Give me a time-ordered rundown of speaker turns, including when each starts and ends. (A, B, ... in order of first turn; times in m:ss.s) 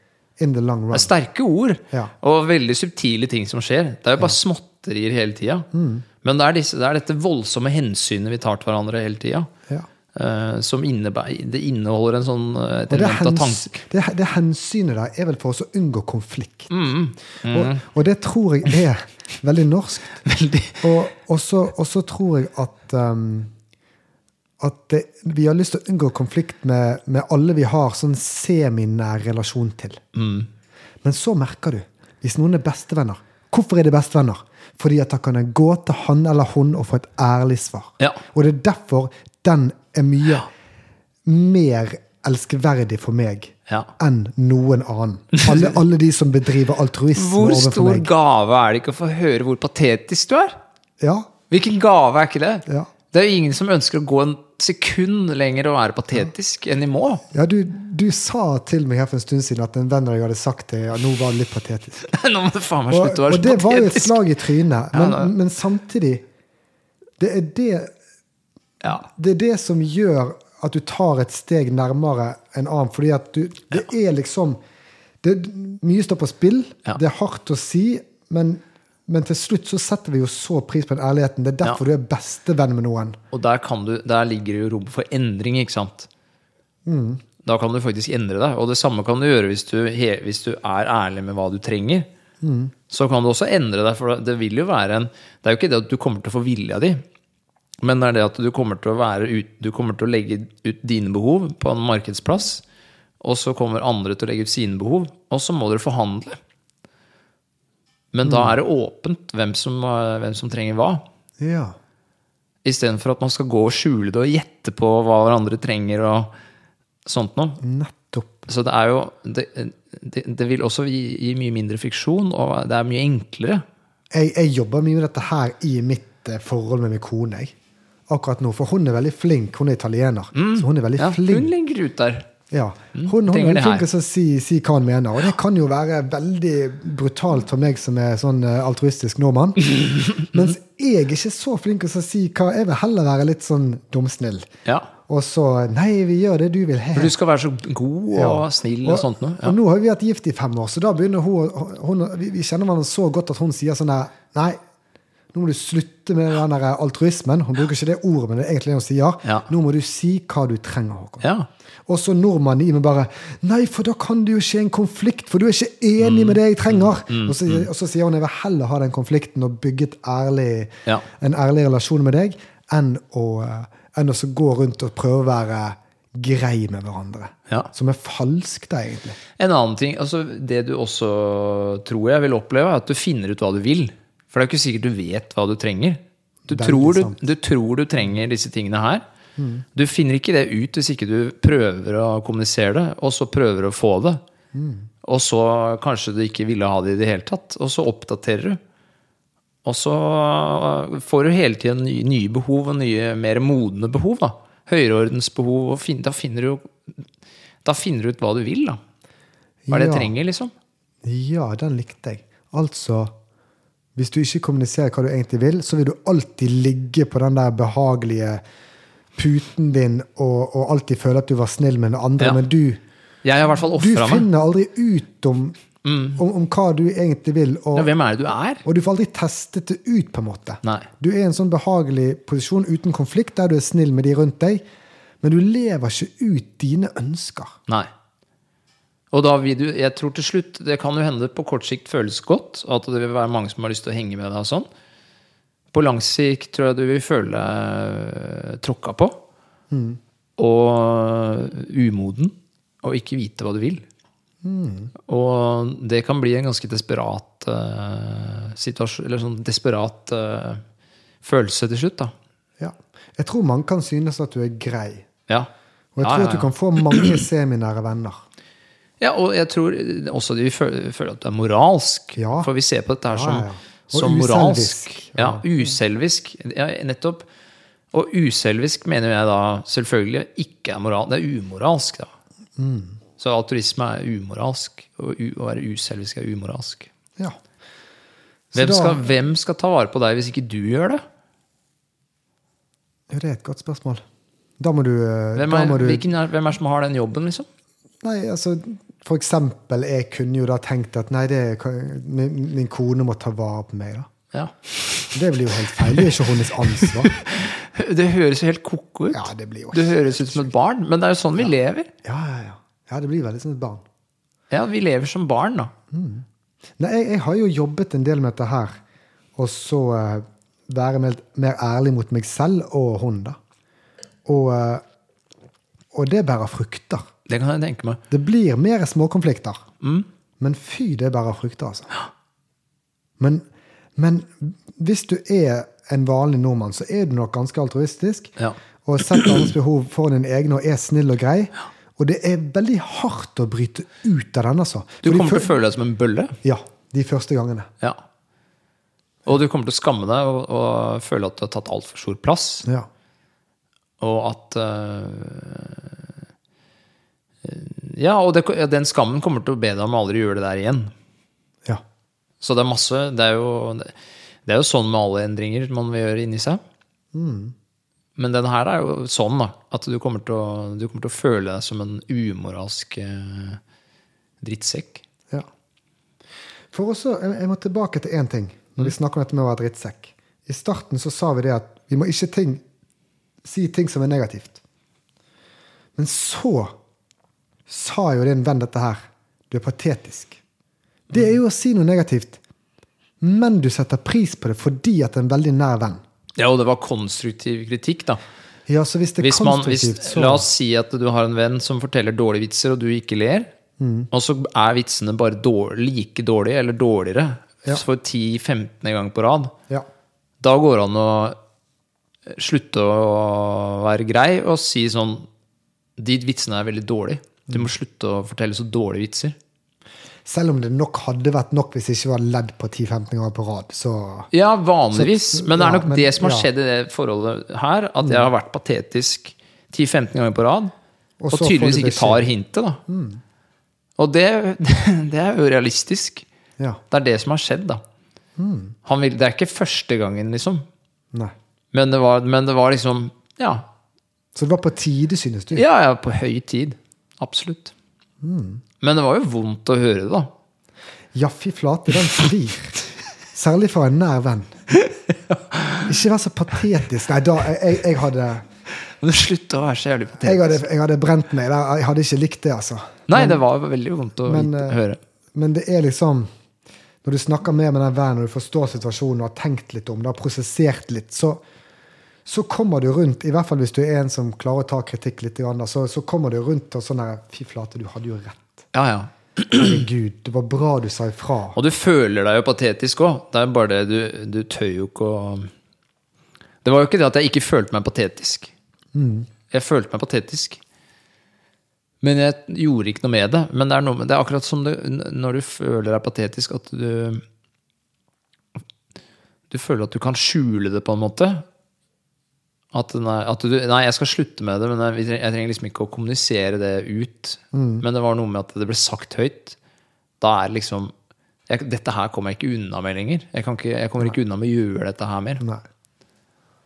0:00.4-0:01.1 A
0:00.9-0:05.7 B
0:05.7-0:06.0 A
0:06.2-0:09.5 B
0:10.1-0:13.8 B
0:12.9-0:16.7 A
0:16.7-0:17.8 B
0:17.4-0:20.2 A
0:20.2-0:20.9 B
0:20.8-0:23.5 A
0:24.6-0:30.0 A
0:30.1-0:30.5 B
0:31.0-0:40.5 A
0:41.2-0:48.1 A
0:45.5-0:45.7 B
0:47.1-0:50.6 B
0:51.0-0:51.3 A
0:51.5-0:57.2 B
0:57.3-1:02.1 A
1:02.0-1:04.2 B
1:02.9-1:06.2 A
1:04.9-1:05.3 B
1:07.2-1:07.9 A
1:08.9-1:14.6 A
1:15.2-1:23.2 A
1:23.3-1:26.1 B
1:26.8-1:27.2 A
1:27.4-1:32.1 B
1:32.4-1:32.7 A
1:32.9-1:37.0 B
1:37.8-1:42.6 B
1:43.2-1:46.4 B
1:48.1-1:51.0 B
1:48.2-1:48.5 A
1:51.4-1:51.8 A
1:52.6-1:56.3 B
1:57.0-1:57.6 B
1:57.6-1:58.4 A
1:58.5-2:03.6 B
2:04.1-2:07.5 A
2:08.1-2:11.5 A
2:10.4-2:12.3 B
2:12.5-2:24.5 A
2:13.0-2:13.8 B
2:25.1-2:27.1 A
2:26.9-2:29.6 B
2:28.1-2:34.6 A
2:35.3-2:41.3 A
2:41.2-2:41.5 B
2:41.9-2:59.2 A
2:46.0-2:47.7 B
2:59.4-3:09.0 B
3:06.5-3:07.2 A
3:09.4-3:09.6 A
3:09.7-3:14.2 B
3:14.5-3:14.9 A
3:15.0-3:18.6 B
3:19.6-3:26.7 B
3:27.6-3:28.8 B
3:29.6-3:30.1 A
3:29.7-3:30.5 B
3:31.0-3:33.1 A
3:34.0-3:38.4 A
3:39.2-3:42.8 A
3:43.2-3:44.3 B
3:43.7-3:45.6 A
3:45.8-3:46.2 B
3:46.1-3:47.9 A
3:47.7-3:48.6 B
3:48.6-3:54.6 A
3:55.2-3:57.6 A
3:59.1-4:04.7 B
4:05.7-4:09.2 B
4:09.7-4:10.0 A
4:10.4-4:13.8 B
4:14.4-4:14.9 A
4:15.0-4:20.6 B
4:21.2-4:22.1 B
4:22.6-4:25.0 A
4:26.0-4:28.2 A
4:26.0-4:27.1 B
4:29.0-4:37.2 B
4:32.2-4:32.5 A
4:33.1-4:35.5 A
4:37.9-4:42.1 B
4:42.6-4:43.0 A
4:43.2-4:46.9 B
4:48.5-4:49.0 A
4:48.5-4:51.0 B
4:53.1-4:54.0 A
4:54.6-4:56.0 A
4:55.4-4:57.5 B
4:58.0-5:04.1 A
5:04.3-5:05.2 B
5:05.1-5:07.2 A
5:05.8-5:11.9 B
5:09.1-5:10.5 A
5:12.0-5:13.8 A
5:14.5-5:15.7 B
5:15.9-5:16.2 A
5:16.8-5:18.8 A
5:19.4-5:23.4 A
5:24.2-5:24.8 A
5:25.9-5:27.0 A
5:27.3-5:28.0 B
5:28.1-5:29.6 A
5:29.8-5:30.1 B
5:30.4-5:31.9 A
5:33.2-5:33.4 A
5:34.0-5:38.3 A
5:38.8-5:45.5 A
5:45.0-5:46.4 B
5:46.4-5:47.7 A
5:49.2-5:52.6 B
5:54.0-5:56.1 B
5:57.4-6:00.9 B
6:02.4-6:03.9 B
6:04.4-6:06.6 B
6:07.1-6:07.5 A
6:08.2-6:13.6 B
6:14.4-6:15.0 B
6:16.7-6:22.6 A
6:23.4-6:24.6 A
6:26.0-6:26.7 A
6:27.7-6:30.4 A
6:31.1-6:32.4 A
6:33.2-6:36.0 A
6:36.4-6:38.2 B
6:38.7-6:40.5 A
6:39.2-6:43.5 B
6:43.8-6:44.1 A
6:44.1-6:49.5 B
6:50.4-6:51.4 B
6:52.3-6:55.3 B
6:56.0-6:59.4 B
7:00.2-7:04.3 A
7:04.3-7:10.7 B
7:04.9-7:06.5 A
7:08.0-7:08.3 A
7:11.2-7:12.3 A
7:11.3-7:12.8 B
7:12.9-7:13.2 A
7:14.0-7:16.2 B
7:16.9-7:17.8 B
7:18.4-7:18.8 A
7:18.8-7:20.6 B
7:21.7-7:23.7 B
7:24.3-7:25.6 A
7:25.5-7:27.7 B
7:28.2-7:28.6 A
7:28.8-7:30.3 B
7:31.1-7:34.6 A
7:34.7-7:35.9 B
7:35.8-7:38.4 A
7:38.9-7:40.6 B
7:40.2-7:43.4 A
7:43.1-7:45.0 B
7:44.2-7:44.8 A
7:45.3-7:46.3 A
7:47.0-7:51.4 A
7:52.2-7:58.6 A
7:58.7-7:59.8 B
7:59.5-8:01.6 A
8:01.5-8:05.5 B
8:06.6-8:08.5 B
8:08.9-8:09.3 A
8:09.5-8:10.6 B
8:12.0-8:17.2 B
8:19.5-8:21.4 B
8:22.7-8:29.6 B
8:27.5-8:27.8 A
8:30.2-8:30.9 B
8:31.5-8:35.4 B